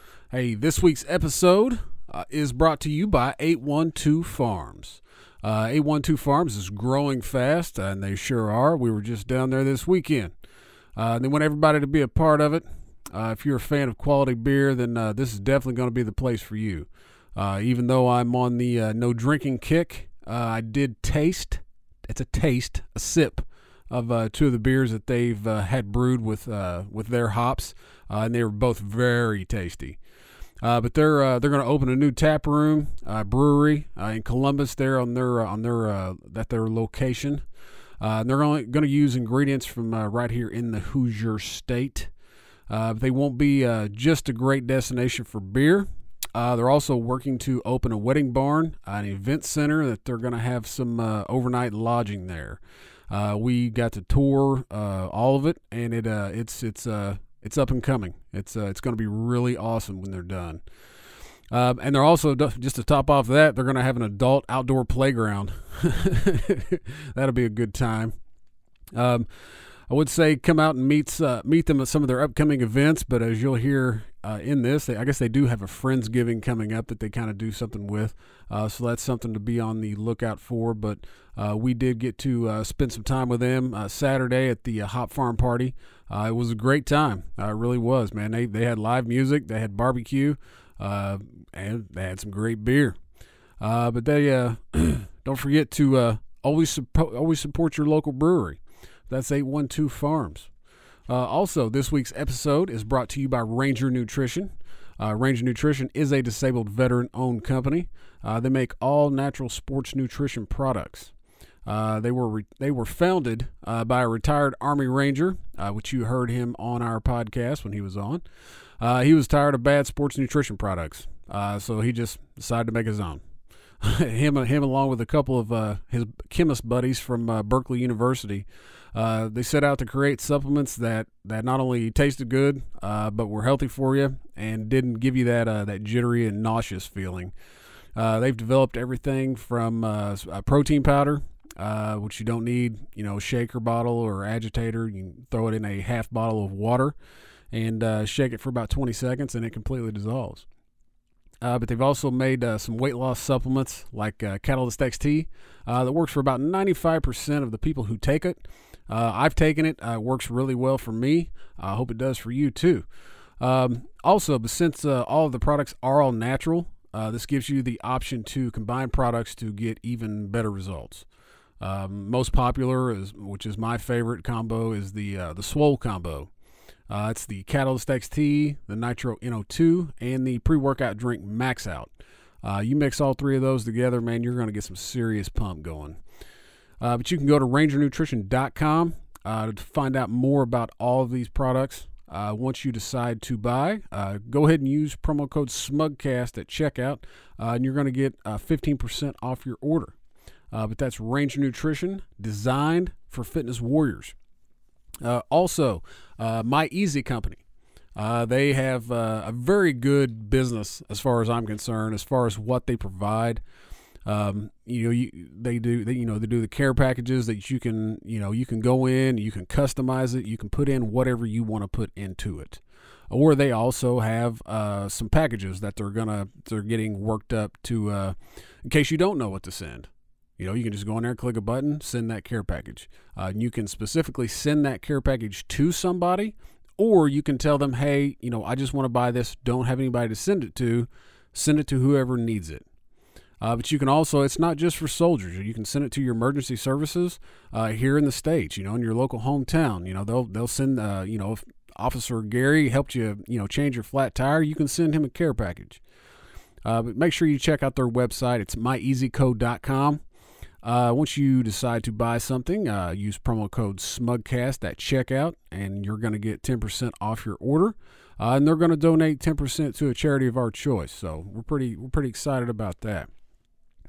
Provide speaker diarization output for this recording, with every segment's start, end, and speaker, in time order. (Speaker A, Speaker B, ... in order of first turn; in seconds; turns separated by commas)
Speaker A: 0.3-10.3, Speaker A: 11.0-30.0, Speaker A: 30.6-37.4, Speaker A: 38.0-42.1, Speaker A: 42.7-60.6, Speaker A: 61.5-68.1, Speaker A: 68.9-69.3, Speaker A: 69.9-93.0, Speaker A: 93.6-100.5, Speaker A: 101.1-111.1, Speaker A: 111.7-118.2, Speaker A: 118.8-123.2, Speaker A: 123.8-137.3, Speaker A: 138.0-146.9, Speaker A: 147.5-150.4, Speaker A: 151.4-162.9, Speaker A: 163.4-171.1, Speaker A: 171.6-176.3, Speaker A: 176.9-181.9, Speaker A: 182.4-186.0, Speaker A: 186.8-199.9, Speaker A: 200.5-204.1, Speaker A: 205.0-207.4, Speaker A: 208.0-213.4, Speaker A: 214.1-242.6, Speaker A: 243.4-255.8, Speaker A: 256.6-260.0, Speaker A: 260.6-273.1